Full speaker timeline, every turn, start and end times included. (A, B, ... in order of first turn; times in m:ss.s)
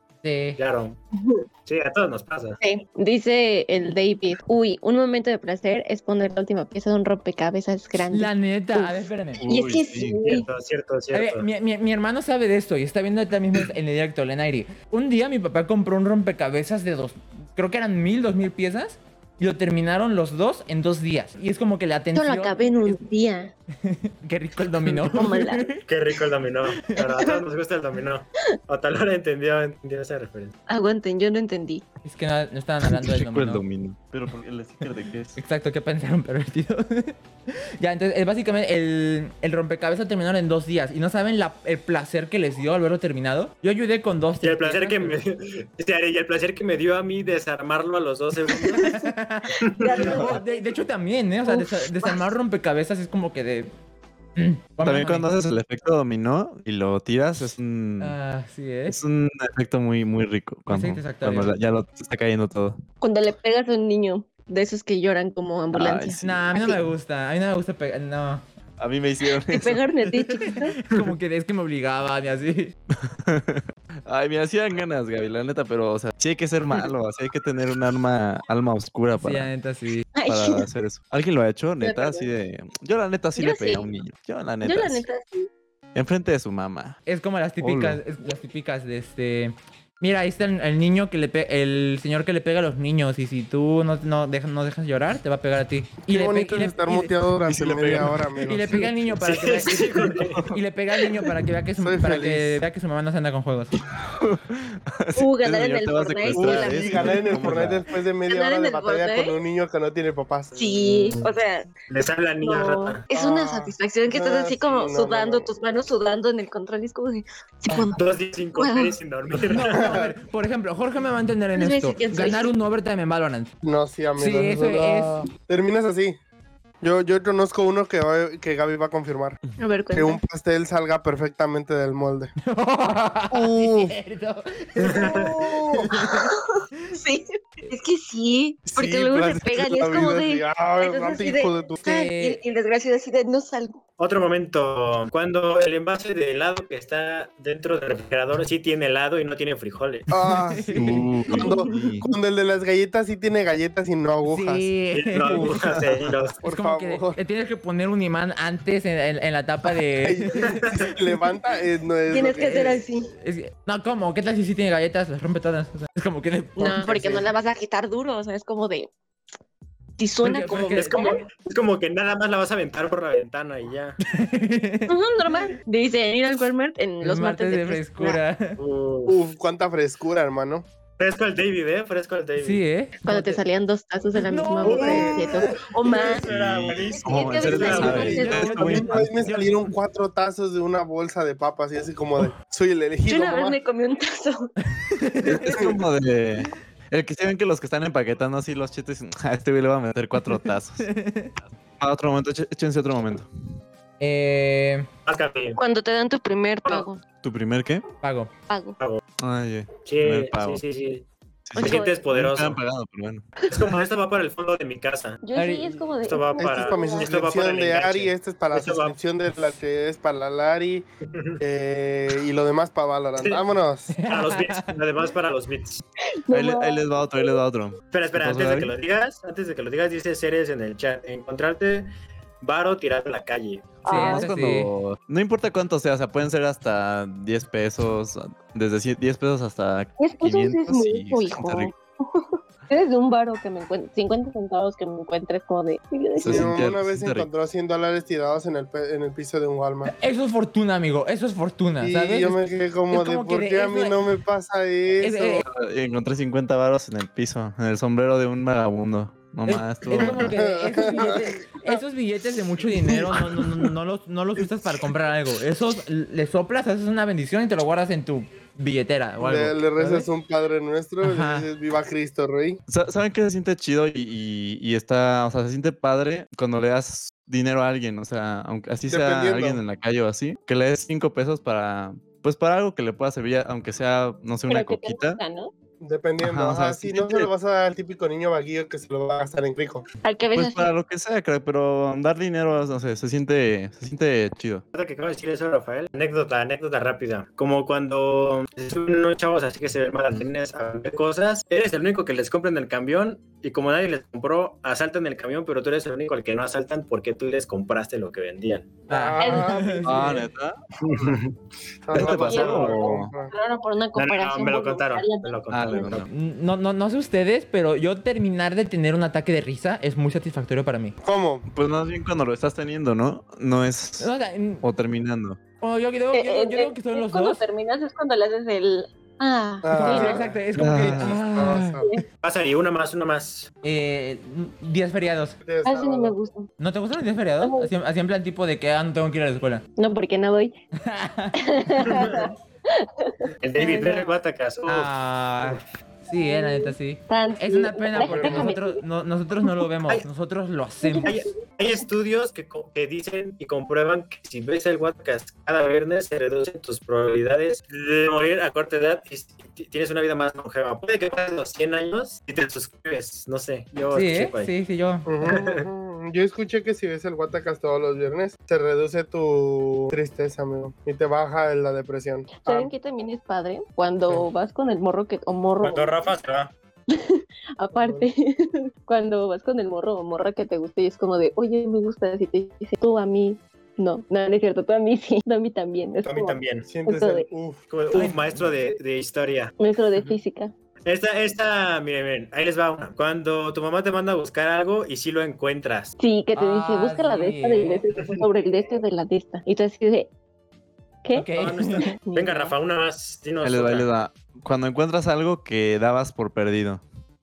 0:00.2-0:00.6 A
0:00.6-0:01.0 B
0:01.2-0:01.4 C
0:01.7-0:02.6 B
0:02.6-0:10.5 C
0:08.1-0:09.4 A
0:09.4-0:10.2 D
0:10.0-0:11.5 B
0:11.1-0:23.0 A
0:22.1-0:23.5 C
0:23.8-0:25.8 A
0:25.0-0:25.8 C
0:25.9-0:30.5 B
0:30.7-0:31.8 C
0:32.0-0:33.6 A
0:32.8-0:35.4 D
0:35.4-0:45.2 A
0:44.4-0:48.9 B
0:48.5-0:53.7 A
0:48.6-0:49.1 C
0:49.6-0:50.3 B
0:49.6-0:50.6 C
0:51.4-0:52.3 C
0:54.4-0:55.3 A
0:54.8-0:58.2 D
0:58.0-0:59.0 A
0:58.9-1:02.8 D
1:00.7-1:01.6 A
1:03.0-1:06.8 C
1:05.7-1:06.5 D
1:06.2-1:08.4 A
1:08.8-1:10.4 D
1:09.4-1:10.8 C
1:10.4-1:12.7 A
1:12.9-1:19.5 D
1:19.2-1:20.0 A
1:20.2-1:20.7 C
1:20.3-1:25.0 D
1:21.8-1:22.3 C
1:23.4-1:23.9 C
1:24.6-1:25.5 C
1:26.0-1:27.0 D
1:27.1-1:37.1 A
1:27.6-1:28.0 D
1:36.1-1:38.9 E
1:37.4-1:38.4 D
1:38.4-1:43.8 A
1:39.2-1:40.4 B
1:40.3-1:40.6 D
1:41.8-1:42.6 E
1:44.0-1:47.8 D
1:45.2-1:47.7 C
1:46.3-1:51.2 E
1:48.3-1:49.4 C
1:50.6-1:51.7 C
1:50.6-1:51.2 B
1:51.9-1:53.0 B
1:52.4-1:58.0 C
1:53.1-1:55.5 E
1:57.8-2:00.0 B
1:58.6-1:59.0 C
1:59.5-2:03.5 A
1:59.5-2:00.2 E
2:01.6-2:02.5 C
2:03.6-2:06.2 E
2:04.2-2:05.3 A
2:06.8-2:12.3 E
2:09.6-2:10.2 C
2:12.4-2:17.0 A
2:13.3-2:14.0 E
2:14.8-2:15.4 B
2:14.8-2:16.0 E
2:16.0-2:23.8 C
2:18.7-2:19.6 D
2:18.8-2:21.8 E
2:21.8-2:22.4 A
2:24.0-2:30.1 B
2:30.1-2:34.7 E
2:30.2-2:31.1 A
2:30.8-2:32.0 D
2:31.3-2:31.9 C
2:34.2-2:35.6 A
2:34.9-2:36.4 B
2:35.4-2:35.7 E
2:36.4-2:37.2 E
2:36.4-2:40.5 A
2:40.0-2:42.7 E
2:40.4-2:40.9 B
2:42.1-2:43.1 C
2:42.3-2:47.3 A
2:46.6-2:48.9 C
2:50.0-2:51.2 C
2:50.2-2:51.2 A
2:50.7-2:54.0 B
2:54.0-2:55.0 A
2:54.9-2:58.2 C
2:57.0-2:58.6 A
2:58.6-2:59.2 B
2:59.1-3:00.7 E
3:01.0-3:02.6 B
3:02.4-3:03.4 A
3:03.1-3:06.3 C
3:04.2-3:05.6 A
3:04.6-3:06.2 E
3:05.8-3:08.3 B
3:06.2-3:09.3 D
3:06.9-3:08.8 C
3:07.4-3:13.6 E
3:07.7-3:09.7 A
3:13.1-3:14.5 C
3:14.7-3:15.6 A
3:15.2-3:20.9 D
3:15.4-3:15.8 E
3:20.2-3:21.4 A
3:21.7-3:23.3 D
3:24.0-3:24.9 A
3:25.1-3:25.6 B
3:25.6-3:27.0 C
3:27.2-3:27.8 D
3:28.0-3:28.3 A
3:28.5-3:28.8 C
3:29.2-3:30.6 D
3:29.9-3:31.0 B
3:31.5-3:33.3 D
3:31.6-3:32.6 B
3:31.6-3:32.0 C
3:33.5-3:35.2 B
3:35.2-3:37.1 C
3:35.4-3:35.8 A
3:36.1-3:39.0 B
3:36.4-3:40.9 E
3:41.1-3:41.4 B
3:41.4-3:43.9 E
3:43.2-3:43.5 B
3:43.9-3:44.7 A
3:44.0-3:45.8 B
3:46.1-3:47.4 C
3:46.3-3:48.7 D
3:47.9-3:51.9 B
3:52.4-3:53.8 B
3:53.8-3:54.3 C
3:53.9-3:54.7 A
3:53.9-4:01.7 D
4:00.0-4:06.7 C
4:06.2-4:07.3 D
4:06.2-4:09.9 E
4:09.8-4:14.0 A
4:11.8-4:15.4 E
4:15.0-4:15.4 A
4:15.4-4:20.3 D
4:19.5-4:30.1 A
4:20.1-4:21.8 E
4:20.8-4:21.2 C
4:22.7-4:23.7 E
4:29.2-4:32.6 E
4:31.0-4:31.5 A
4:32.7-4:45.2 D
4:38.9-4:39.6 E
4:44.5-4:45.5 C
4:45.8-4:49.9 E
4:46.2-4:47.3 D
4:50.0-4:50.7 C
4:50.4-4:54.6 D
4:54.7-5:08.8 B
5:08.9-5:10.2 A
5:08.9-5:10.3 E
5:09.2-5:09.6 C
5:09.8-5:10.6 D
5:10.8-5:11.4 B
5:11.8-5:13.3 E
5:11.9-5:13.1 D
5:12.0-5:15.9 C
5:14.0-5:16.1 B
5:15.5-5:16.1 D
5:16.1-5:21.0 A
5:21.0-5:21.5 E
5:21.5-5:25.4 D
5:24.0-5:24.6 A
5:25.6-5:27.4 A
5:26.1-5:30.3 C
5:29.6-5:31.9 E
5:29.8-5:31.8 A
5:30.6-5:31.2 D
5:32.2-5:33.5 B
5:33.6-5:35.4 A
5:35.4-5:36.2 E
5:35.6-5:36.5 C
5:36.6-5:39.6 A
5:37.4-5:37.7 C
5:39.8-5:40.6 C
5:40.8-5:41.4 A
5:41.4-5:44.2 C
5:41.8-5:42.3 B
5:43.4-5:44.9 B
5:44.7-5:51.2 A
5:46.1-5:48.8 C
5:48.0-5:48.5 E
5:50.8-5:51.3 C
5:51.0-6:04.5 B
6:03.9-6:05.1 A
6:05.1-6:12.7 E
6:05.2-6:05.7 B
6:12.3-6:16.0 C
6:15.6-6:16.5 B
6:16.9-6:27.3 C
6:17.8-6:18.1 E
6:26.0-6:26.7 B
6:26.6-6:27.6 E
6:27.7-6:29.6 B
6:27.9-6:28.7 A
6:29.6-6:30.5 C
6:30.9-6:35.9 B
6:36.0-6:40.1 C
6:36.3-6:37.8 A
6:41.0-6:42.6 C
6:41.1-6:41.9 A
6:41.4-6:43.9 B
6:43.4-6:46.8 D